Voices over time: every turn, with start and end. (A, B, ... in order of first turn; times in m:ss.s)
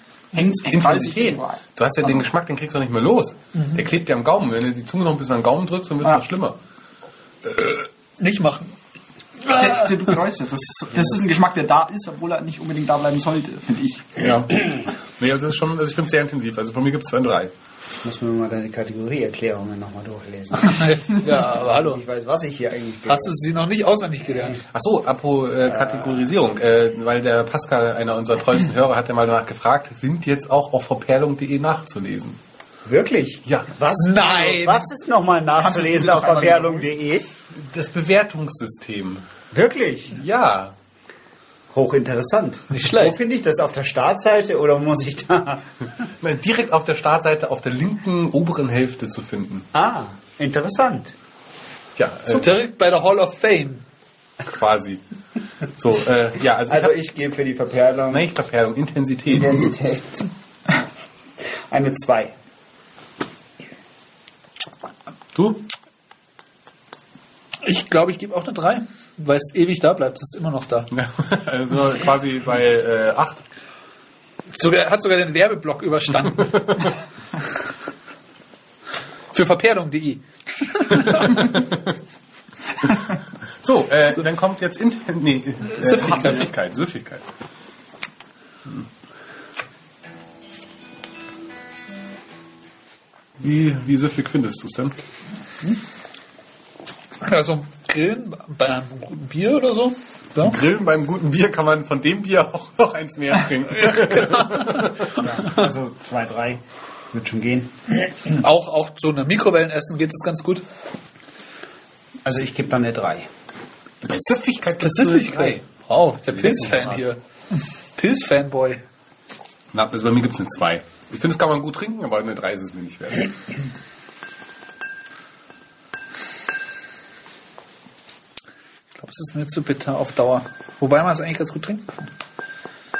0:00.3-0:02.2 A
0:00.3-0:06.6 B
0:07.5-0:08.7 C
0:09.4-0:14.3 A
0:14.2-0:17.5 B
0:18.0-0:23.4 D
0:20.7-0:22.0 C
0:23.1-0:24.6 C
0:24.3-0:24.6 D
0:24.7-0:32.4 B
0:32.8-0:37.3 D
0:34.0-0:34.8 C
0:35.6-0:36.8 A
0:37.6-0:39.2 B
0:39.5-0:40.2 D
0:40.2-0:40.7 B
0:41.7-0:45.6 D
0:42.7-0:43.1 C
0:46.2-0:49.6 B
0:49.7-0:51.1 D
0:52.0-0:52.5 B
0:52.3-0:53.8 C
0:54.5-0:55.0 B
0:55.8-0:56.9 B
0:56.7-0:58.2 D
0:58.1-0:59.6 B
0:59.3-1:00.3 D
1:01.7-1:02.3 D
1:05.3-1:05.6 B
1:07.6-1:10.9 C
1:10.9-1:13.4 B
1:14.5-1:16.9 C
1:19.3-1:21.4 C
1:21.0-1:21.9 B
1:23.6-1:27.2 B
1:25.8-1:26.2 C
1:33.4-1:34.9 B
1:37.2-1:40.5 C
1:40.4-1:45.2 B
1:45.1-1:47.7 D
1:48.2-1:50.6 C
1:52.2-1:53.3 D
1:54.0-1:55.6 B
1:54.8-1:57.2 C
1:56.3-1:57.0 B
1:58.0-1:58.8 C
1:59.7-2:03.4 B
2:09.0-2:12.1 C